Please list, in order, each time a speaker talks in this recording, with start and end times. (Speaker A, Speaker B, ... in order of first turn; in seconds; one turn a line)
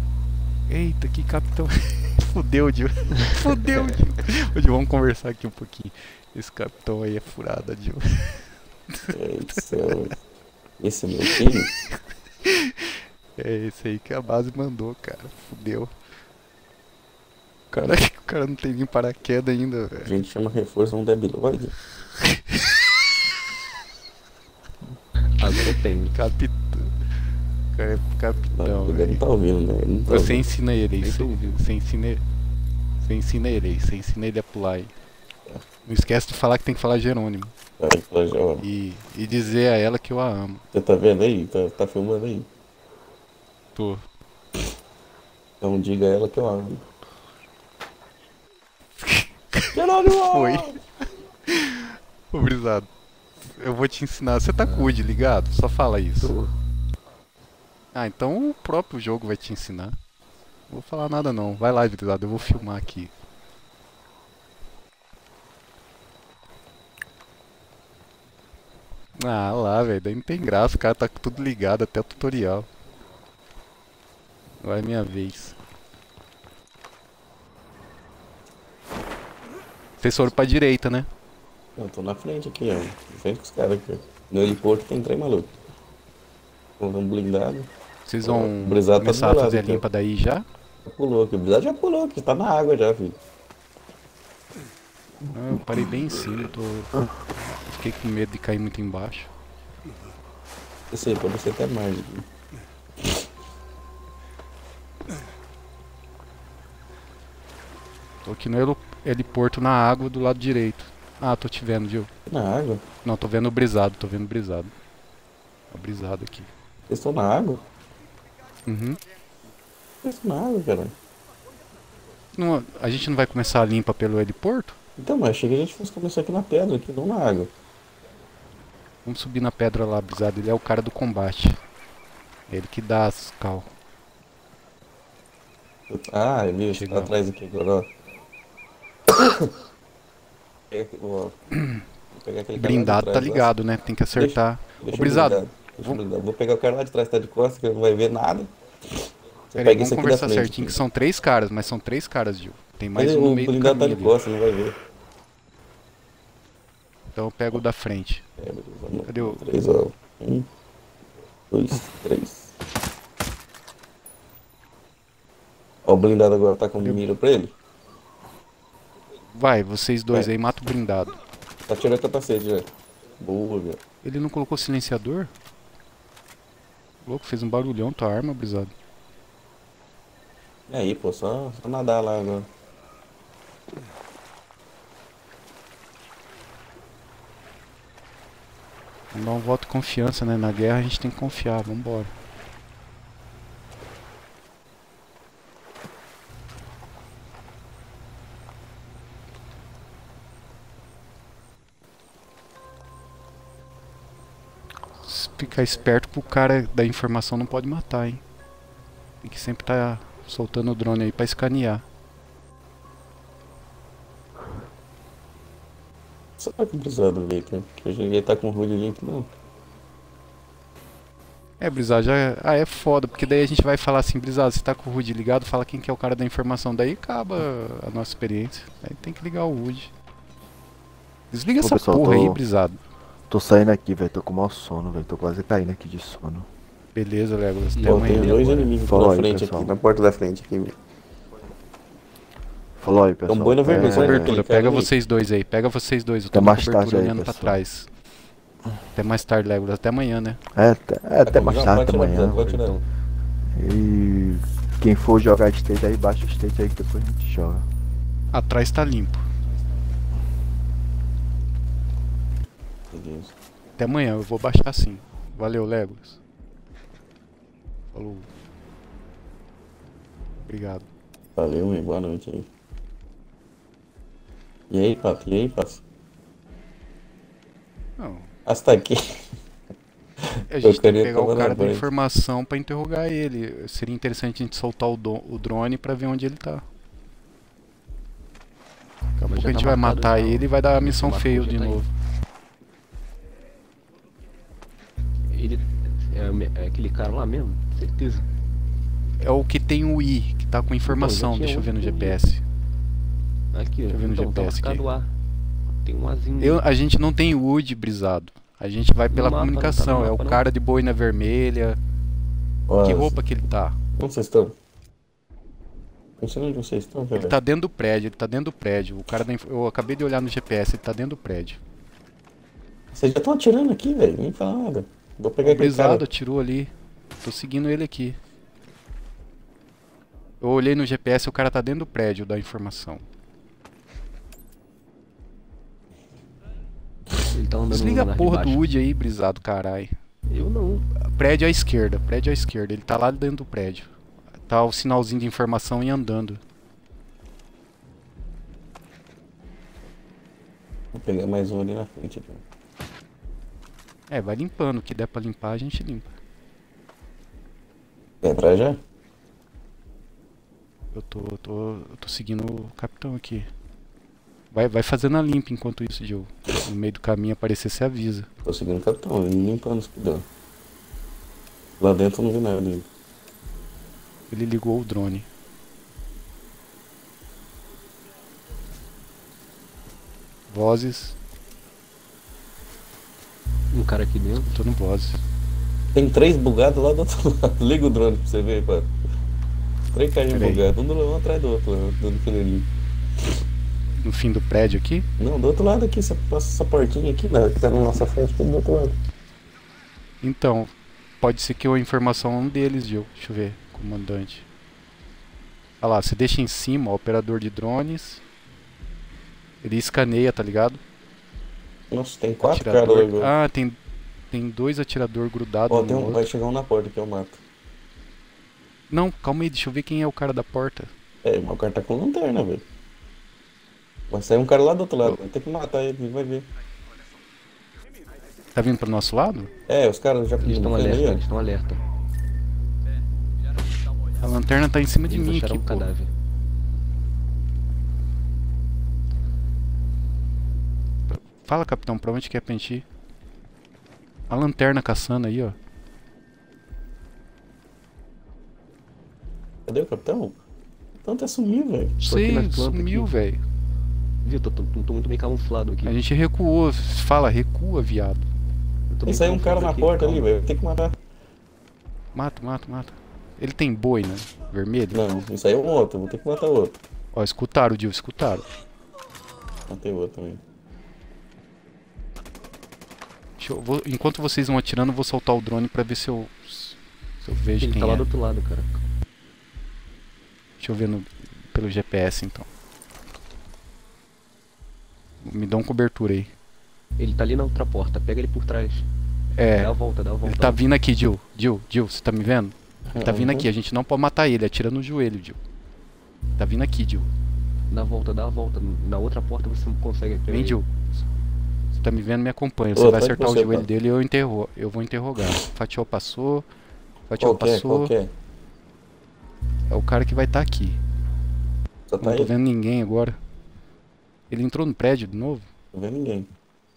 Speaker A: 0.7-9.9
Speaker B: 9.1-10.1
Speaker B: 10.8-11.7
Speaker A: 11.2-15.9
Speaker A: 17.7-20.1
Speaker B: 20.0-21.8
Speaker A: 22.2-23.0
Speaker C: 25.4-26.2
Speaker A: 26.1-26.9
Speaker A: 27.7-29.2
Speaker B: 28.5-30.4
Speaker A: 30.1-32.2
Speaker C: 31.0-31.6
Speaker A: 33.0-34.9
Speaker A: 35.9-37.5
Speaker B: 37.8-38.6
Speaker A: 38.6-40.6
Speaker B: 40.7-42.5
Speaker A: 43.8-44.0
Speaker B: 45.6-46.8
Speaker A: 49.0-52.9
Speaker B: 49.7-50.8
Speaker A: 53.4-56.3
Speaker C: 54.6-54.9
Speaker C: 56.2-56.5
Speaker A: 57.9-60.0
Speaker A: 60.7-63.1
Speaker A: 69.2-72.7
Speaker A: 74.6-75.6
Speaker A: 80.0-81.1
Speaker B: 81.8-85.5
Speaker B: 86.8-87.7
Speaker A: 88.0-90.4
Speaker B: 88.2-89.8
Speaker B: 90.8-93.2
Speaker A: 95.3-99.3
Speaker B: 100.9-102.2
Speaker A: 108.2-112.1
Speaker B: 112.3-112.8
Speaker A: 113.0-114.7
Speaker A: 115.7-116.5
Speaker B: 116.9-117.6
Speaker A: 118.7-119.0
Speaker B: 120.0-120.9
Speaker A: 122.3-124.8
Speaker B: 125.0-127.5
Speaker A: 129.0-131.6
Speaker A: 132.5-133.7
Speaker B: 135.9-137.9
Speaker A: 136.7-137.1
Speaker B: 139.1-139.5
Speaker B: 140.7-141.4
Speaker A: 141.5-141.8
Speaker B: 142.1-143.5
Speaker A: 142.5-146.0
Speaker B: 144.1-148.5
Speaker B: 149.5-150.8
Speaker A: 149.6-154.2
Speaker B: 152.9-154.7
Speaker A: 157.1-158.2
Speaker B: 158.4-160.5
Speaker A: 159.1-159.4
Speaker B: 161.5-162.5
Speaker B: 165.8-167.5
Speaker A: 169.3-171.1
Speaker B: 171.7-172.7
Speaker B: 173.2-173.8
Speaker A: 174.0-175.3
Speaker A: 177.0-178.7
Speaker B: 180.7-182.5
Speaker A: 189.1-192.1
Speaker A: 205.0-208.2
Speaker A: 209.2-211.8
Speaker B: 216.4-219.3
Speaker A: 221.6-229.9
Speaker A: 231.3-232.8
Speaker D: 231.6-232.4
Speaker D: 233.3-236.5
Speaker A: 236.9-238.3
Speaker C: 237.7-238.7
Speaker B: 237.8-240.7
Speaker D: 238.8-239.7
Speaker D: 242.8-244.4
Speaker B: 243.3-244.9
Speaker A: 243.7-247.9
Speaker D: 246.3-247.6
Speaker A: 248.9-250.4
Speaker D: 250.5-252.6
Speaker B: 251.2-252.8
Speaker C: 252.1-252.8
Speaker D: 253.5-257.6
Speaker A: 258.3-259.2
Speaker B: 262.9-263.3
Speaker A: 263.8-266.2
Speaker A: 267.9-268.3
Speaker A: 270.5-270.9
Speaker B: 271.4-272.5
Speaker B: 274.7-275.8
Speaker A: 278.0-278.3
Speaker B: 278.4-279.3
Speaker B: 280.3-281.9
Speaker A: 280.5-286.6
Speaker A: 289.2-291.9
Speaker C: 289.3-291.8
Speaker C: 295.3-298.3
Speaker A: 299.2-302.4
Speaker C: 300.9-302.2
Speaker C: 303.5-305.1
Speaker A: 303.9-304.8
Speaker C: 305.8-306.6
Speaker A: 306.4-311.8
Speaker C: 309.1-310.4
Speaker B: 312.7-313.1
Speaker A: 312.8-313.8
Speaker B: 314.0-314.6
Speaker B: 316.2-317.3
Speaker A: 317.1-321.6
Speaker B: 322.9-326.0
Speaker A: 325.4-328.2
Speaker A: 330.4-333.0
Speaker C: 337.3-338.6
Speaker A: 337.7-340.0
Speaker C: 340.3-340.9
Speaker A: 341.0-343.9
Speaker A: 344.5-346.4
Speaker B: 350.9-352.4
Speaker A: 354.1-356.1
Speaker B: 358.2-358.8
Speaker A: 360.9-363.5
Speaker A: 364.5-368.3
Speaker B: 368.4-370.2
Speaker B: 371.8-372.9
Speaker A: 374.3-375.3
Speaker A: 380.5-381.1
Speaker C: 383.7-384.5
Speaker A: 384.4-385.2
Speaker B: 385.9-388.9
Speaker B: 389.9-392.7
Speaker A: 390.3-390.6
Speaker A: 394.0-395.1
Speaker B: 395.2-399.0
Speaker A: 400.2-404.4
Speaker A: 405.8-408.2
Speaker A: 409.6-410.8
Speaker B: 411.9-413.3
Speaker A: 412.4-413.8
Speaker A: 414.3-416.3
Speaker B: 415.7-417.4
Speaker A: 418.9-420.9
Speaker B: 421.2-422.6
Speaker B: 424.1-426.5
Speaker A: 428.5-429.5
Speaker B: 429.7-431.2
Speaker C: 430.4-431.8
Speaker A: 434.2-435.9
Speaker C: 435.1-436.1
Speaker A: 441.1-442.8
Speaker A: 444.3-445.6
Speaker B: 449.7-450.4
Speaker B: 451.0-452.0
Speaker A: 452.0-453.4
Speaker C: 452.0-453.1
Speaker C: 454.2-455.9
Speaker A: 455.8-458.3
Speaker C: 458.9-460.3
Speaker B: 459.1-461.0
Speaker A: 462.1-465.0
Speaker B: 464.9-466.8
Speaker A: 467.1-468.5
Speaker B: 469.7-470.4
Speaker A: 473.4-478.1
Speaker C: 477.6-478.8
Speaker A: 480.6-482.5
Speaker A: 485.2-486.3
Speaker C: 487.0-488.9
Speaker A: 489.4-489.7
Speaker C: 489.6-490.6
Speaker A: 490.2-495.4
Speaker B: 492.9-493.5
Speaker A: 496.4-497.1
Speaker C: 497.7-500.6
Speaker A: 500.3-500.7
Speaker A: 501.7-506.4
Speaker B: 502.8-503.7
Speaker A: 507.1-507.9
Speaker B: 507.2-508.1
Speaker A: 509.7-510.8
Speaker B: 511.9-512.3
Speaker A: 512.0-513.2
Speaker A: 514.3-515.5
Speaker B: 515.7-516.3